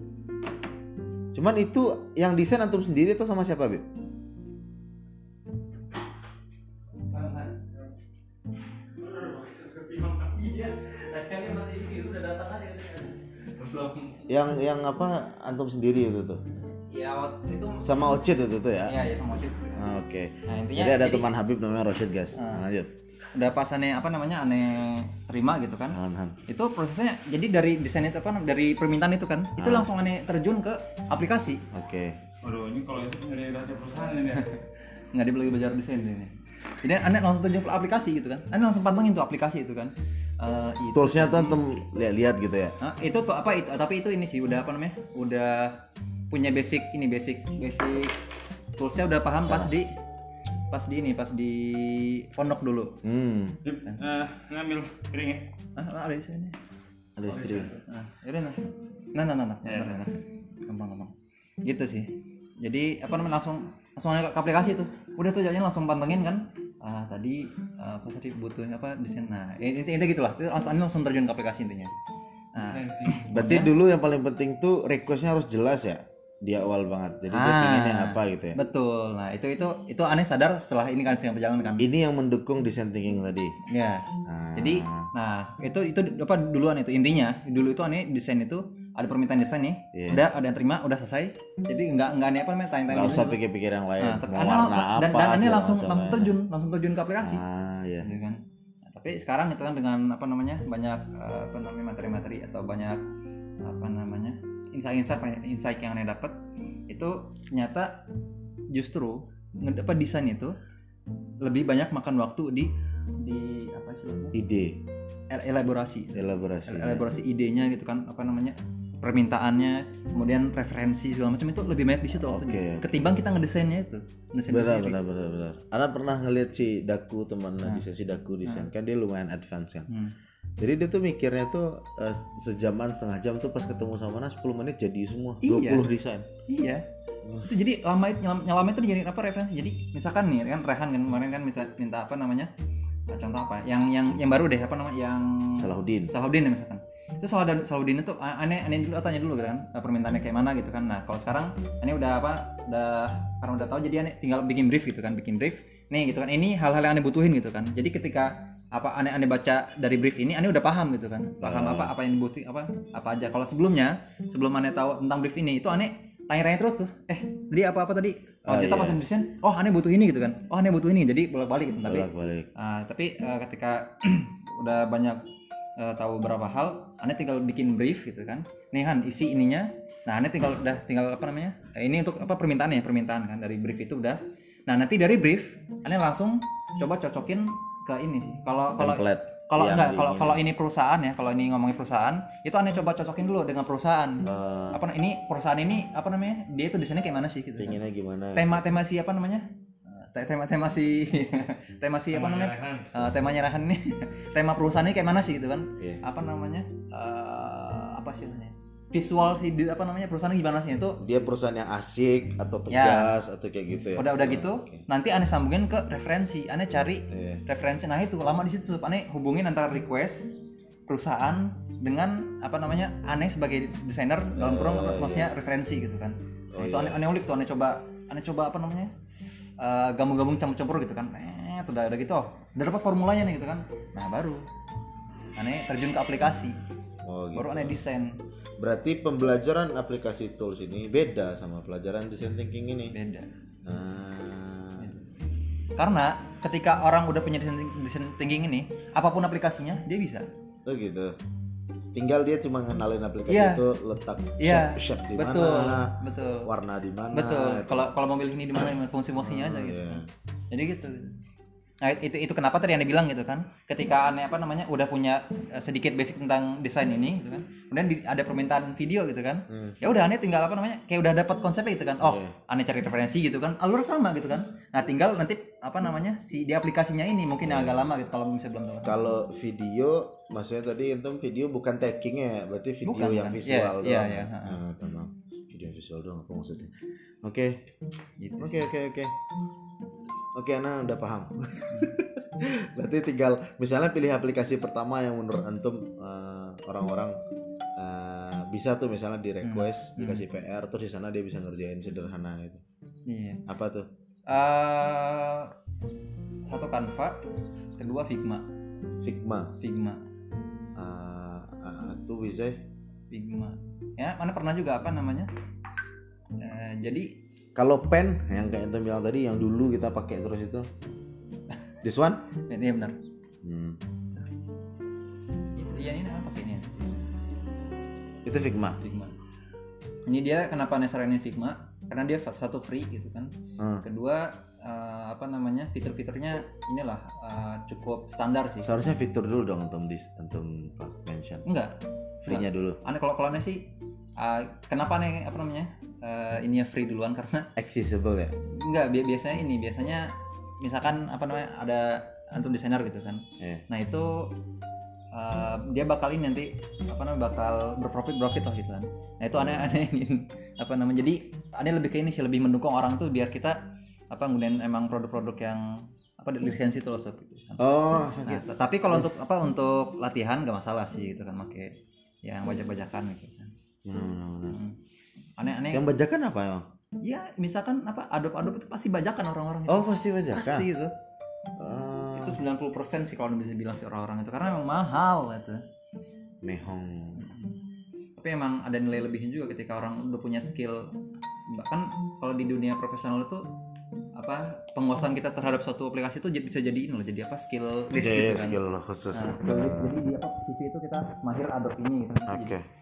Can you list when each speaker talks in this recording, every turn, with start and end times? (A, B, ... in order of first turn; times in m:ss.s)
0:01.3-0:03.8 A
0:07.1-0:07.9 B
0:09.0-0:14.4 B
0:14.3-0:16.4 A
0:16.7-0:18.2 B
0:17.8-0:19.0 A
0:18.8-0:19.9 B
0:19.7-0:22.9 A
0:20.5-0:21.3 B
0:22.4-0:22.6 B
0:23.3-0:31.6 B
0:25.9-0:26.4 A
0:29.6-0:29.9 A
0:31.7-0:32.2 A
0:32.4-0:34.5 C
0:34.2-0:41.6 B
0:40.9-0:42.8 A
0:42.8-0:45.8 B
0:46.3-0:48.1 B
0:48.8-0:49.9 B
0:49.4-0:49.8 A
0:50.7-0:53.0 B
0:53.0-0:53.6 A
0:53.6-0:55.5 C
0:55.8-0:56.6 B
0:57.2-0:57.7 A
0:57.3-0:57.7 C
0:57.8-1:01.1 B
1:01.6-1:11.9 B
1:12.6-1:13.7 B
1:12.6-1:13.3 C
1:13.3-1:18.6 A
1:17.3-1:21.9 B
1:21.8-1:23.6 A
1:23.7-1:33.4 B
1:24.3-1:25.1 A
1:29.9-1:30.3 A
1:32.9-1:36.4 A
1:34.0-1:37.4 B
1:37.2-1:38.1 A
1:38.0-1:43.0 B
1:43.6-1:46.4 B
1:46.9-1:48.1 B
1:48.7-1:50.6 B
1:51.4-1:54.4 B
1:54.3-1:54.8 A
1:55.3-2:05.0 B
1:56.1-1:57.1 A
2:02.1-2:03.1 A
2:04.5-2:09.9 A
2:08.4-2:08.7 B
2:09.9-2:10.2 B
2:10.6-2:16.3 A
2:15.4-2:15.9 B
2:16.5-2:16.9 B
2:17.4-2:22.5 B
2:23.1-2:55.2 B
2:25.6-2:26.1 A
2:41.4-2:42.0 A
2:48.5-2:49.0 A
2:51.8-2:52.5 A
2:55.8-3:17.8 B
3:08.8-3:10.4 A
3:14.2-3:14.8 A
3:17.6-3:18.6 A
3:18.3-3:31.0 B
3:22.1-3:22.9 C
3:31.0-3:34.8 A
3:32.7-3:33.1 B
3:34.0-3:40.4 B
3:37.1-3:37.4 A
3:40.9-3:48.9 B
3:44.4-3:45.4 A
3:46.5-3:47.0 A
3:49.6-3:54.4 B
3:55.4-3:56.6 B
3:57.0-3:57.8 A
3:57.3-3:58.2 B
3:58.6-4:02.9 A
4:02.9-4:03.3 B
4:03.6-4:04.9 A
4:05.8-4:10.3 B
4:10.7-4:11.2 A
4:11.9-4:17.9 A
4:13.3-4:13.6 B
4:14.4-4:16.5 B
4:17.1-4:21.2 B
4:19.2-4:20.1 A
4:21.8-4:39.0 B
4:29.5-4:29.8 A
4:32.0-4:32.4 A
4:37.4-4:37.9 A
4:38.8-4:47.7 A
4:42.8-4:44.6 B
4:48.2-4:48.7 B
4:48.4-4:49.1 A
4:50.4-4:57.2 A
4:51.7-4:52.0 B
4:57.8-5:02.6 A
4:59.4-5:00.2 B
5:03.1-5:03.4 B
5:03.5-5:03.9 A
5:04.3-5:05.5 B
5:06.5-5:07.2 B
5:07.8-5:08.5 B
5:09.0-5:09.6 A
5:09.6-5:10.0 B
5:10.8-5:12.6 A
5:13.1-5:15.3 B
5:16.4-5:17.2 B
5:17.6-5:20.7 A
5:21.8-5:22.2 A
5:22.4-5:23.0 B
5:23.4-5:23.8 A
5:25.5-5:26.8 B
5:28.2-5:28.8 A
5:28.8-5:29.2 B
5:30.1-5:38.7 B
5:33.6-5:33.8 A
5:38.6-5:41.5 A
5:41.4-5:47.5 B
5:42.2-5:42.8 A
5:47.6-5:48.3 A
5:48.5-5:54.3 B
5:53.4-5:53.6 A
5:55.1-6:03.6 B
5:59.4-5:59.7 A
6:04.1-6:13.5 B
6:07.6-6:09.1 A
6:13.8-6:14.6 A
6:14.5-6:14.8 B
6:15.4-6:15.9 B
6:15.7-6:16.7 A
6:17.0-6:20.9 B
6:19.7-6:20.7 A
6:21.6-6:22.4 A
6:22.2-6:25.6 B
6:26.4-6:27.3 A
6:27.2-6:27.6 B
6:28.2-6:30.9 B
6:31.5-6:33.5 B
6:34.2-6:38.6 B
6:38.0-6:40.0 A
6:39.1-6:42.6 B
6:42.3-6:42.7 A